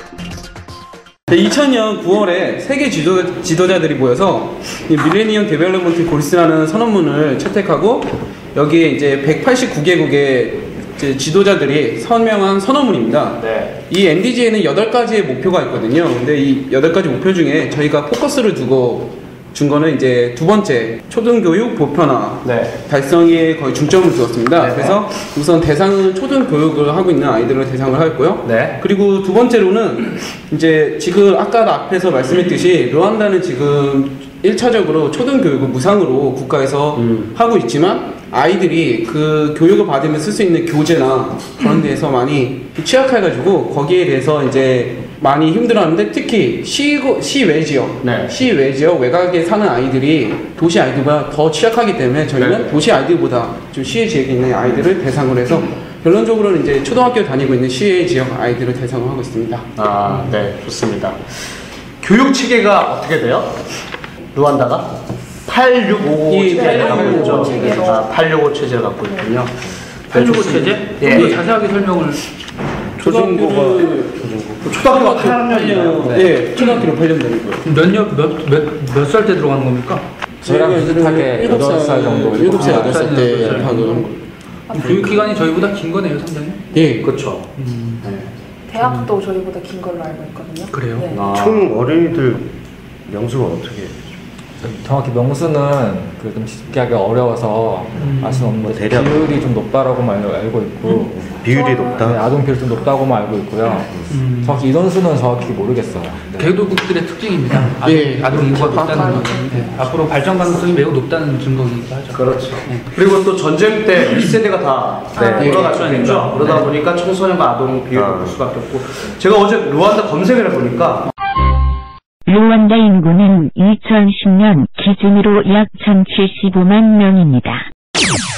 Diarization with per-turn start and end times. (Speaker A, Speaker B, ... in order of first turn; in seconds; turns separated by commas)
Speaker A: 1.3-59.7, Speaker B: 13.4-13.7, Speaker B: 22.4-22.7, Speaker B: 24.6-25.0, Speaker B: 28.4-28.7, Speaker B: 37.0-37.3, Speaker B: 48.0-48.3, Speaker B: 52.3-52.7, Speaker B: 59.8-61.2, Speaker B: 62.0-63.5, Speaker B: 64.3-64.9, Speaker B: 65.5-71.4, Speaker A: 66.3-67.8, Speaker C: 66.5-68.1, Speaker D: 70.1-72.2, Speaker A: 73.0-74.2, Speaker B: 73.0-76.4, Speaker E: 73.3-73.8, Speaker D: 74.9-75.4, Speaker A: 74.9-77.6, Speaker D: 76.4-76.9, Speaker D: 77.6-80.0, Speaker A: 80.4-84.2, Speaker F: 80.4-83.4, Speaker D: 82.5-84.1, Speaker C: 84.7-85.5, Speaker D: 84.7-86.6, Speaker A: 86.7-87.2, Speaker B: 87.0-87.5, Speaker D: 87.5-88.1, Speaker B: 88.0-88.3, Speaker C: 88.7-91.3, Speaker D: 88.8-89.1, Speaker D: 90.7-91.1, Speaker B: 91.1-91.7, Speaker E: 91.3-92.5, Speaker E: 93.1-94.0, Speaker F: 94.6-101.2, Speaker D: 98.0-98.6, Speaker E: 98.6-99.3, Speaker E: 101.0-102.3, Speaker C: 101.5-102.0, Speaker F: 102.0-106.5, Speaker D: 104.1-104.6, Speaker D: 106.3-112.8, Speaker A: 107.8-109.2, Speaker C: 108.6-109.8, Speaker B: 112.1-121.1, Speaker C: 115.1-115.7, Speaker A: 115.3-115.8, Speaker D: 115.5-116.8, Speaker E: 117.9-118.4, Speaker G: 122.3-127.6